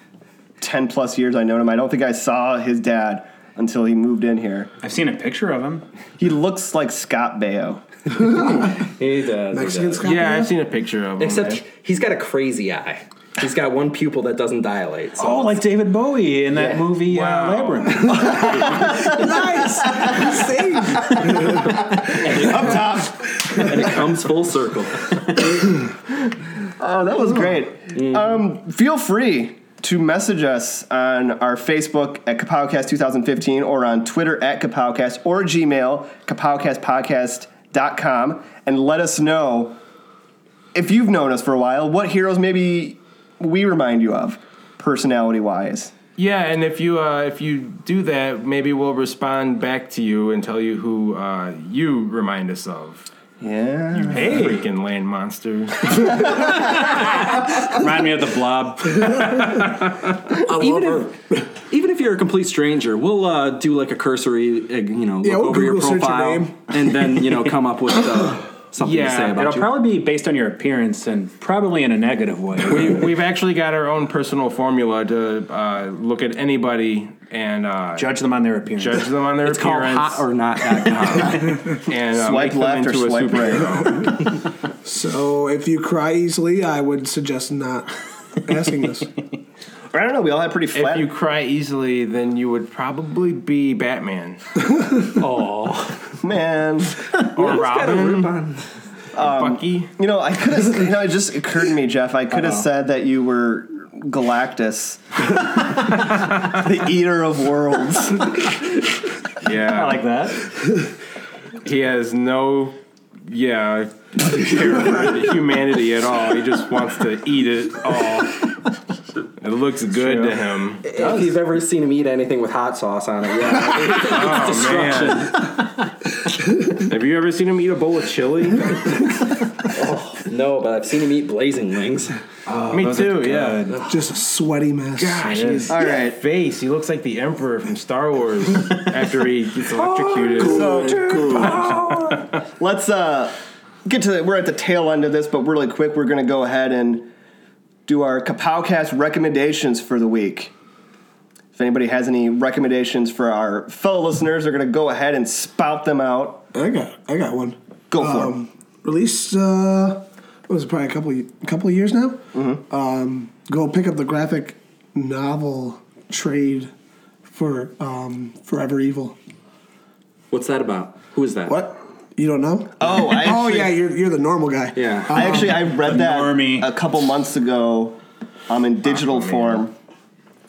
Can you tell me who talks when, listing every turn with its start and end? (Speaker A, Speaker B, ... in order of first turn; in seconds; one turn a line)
Speaker A: 0.6-4.7
Speaker B: 4.8-5.8
Speaker A: 6.2-7.8
Speaker C: 8.2-8.8
Speaker D: 8.6-10.1
Speaker C: 9.5-10.5
Speaker E: 10.0-11.6
Speaker D: 11.2-15.5
Speaker B: 15.2-19.1
Speaker E: 17.1-18.2
Speaker A: 18.2-19.2
Speaker C: 18.3-22.4
Speaker A: 22.0-23.9
Speaker D: 22.3-22.8
Speaker D: 23.5-25.1
Speaker A: 26.8-39.8
Speaker D: 27.9-28.4
Speaker A: 40.7-45.9
Speaker E: 46.2-53.1
Speaker A: 53.4-54.5
Speaker E: 54.0-56.2
Speaker B: 54.1-54.6
Speaker B: 56.1-59.9
Speaker D: 60.4-69.7
Speaker C: 60.4-61.4
Speaker C: 65.2-66.5
Speaker E: 68.8-69.5
Speaker B: 69.3-73.1
Speaker E: 72.7-78.1
Speaker B: 78.0-79.1
Speaker E: 78.8-80.2
Speaker D: 79.4-81.7
Speaker E: 81.7-84.2
Speaker A: 82.1-84.1
Speaker C: 84.8-87.9
Speaker C: 88.4-89.1
Speaker A: 89.9-91.1
Speaker E: 90.7-94.4
Speaker B: 95.2-95.5
Speaker A: 96.2-97.0
Speaker E: 97.3-98.3
Speaker D: 97.3-98.7
Speaker A: 99.1-108.5
Speaker E: 99.2-99.9
Speaker B: 102.3-102.6
Speaker E: 109.4-110.1
Speaker B: 109.6-110.5
Speaker E: 111.6-118.5
Speaker E: 119.4-120.8
Speaker B: 120.0-120.4
Speaker D: 120.8-125.5
Speaker B: 120.9-121.3
Speaker E: 123.9-125.3
Speaker E: 126.7-129.1
Speaker D: 129.6-132.2
Speaker B: 132.4-133.9
Speaker E: 132.7-133.6
Speaker C: 133.8-135.2
Speaker E: 135.0-142.3
Speaker B: 135.2-135.7
Speaker A: 135.7-136.2
Speaker C: 140.3-141.9
Speaker A: 140.4-147.1
Speaker A: 147.8-150.5
Speaker A: 151.5-156.4
Speaker C: 156.5-166.7
Speaker A: 157.9-158.3
Speaker A: 162.3-162.6
Speaker C: 167.3-169.2
Speaker D: 170.3-171.7
Speaker C: 171.5-175.7
Speaker A: 172.8-173.7
Speaker D: 174.7-175.2
Speaker A: 175.1-179.7
Speaker B: 175.8-176.7
Speaker E: 178.8-179.6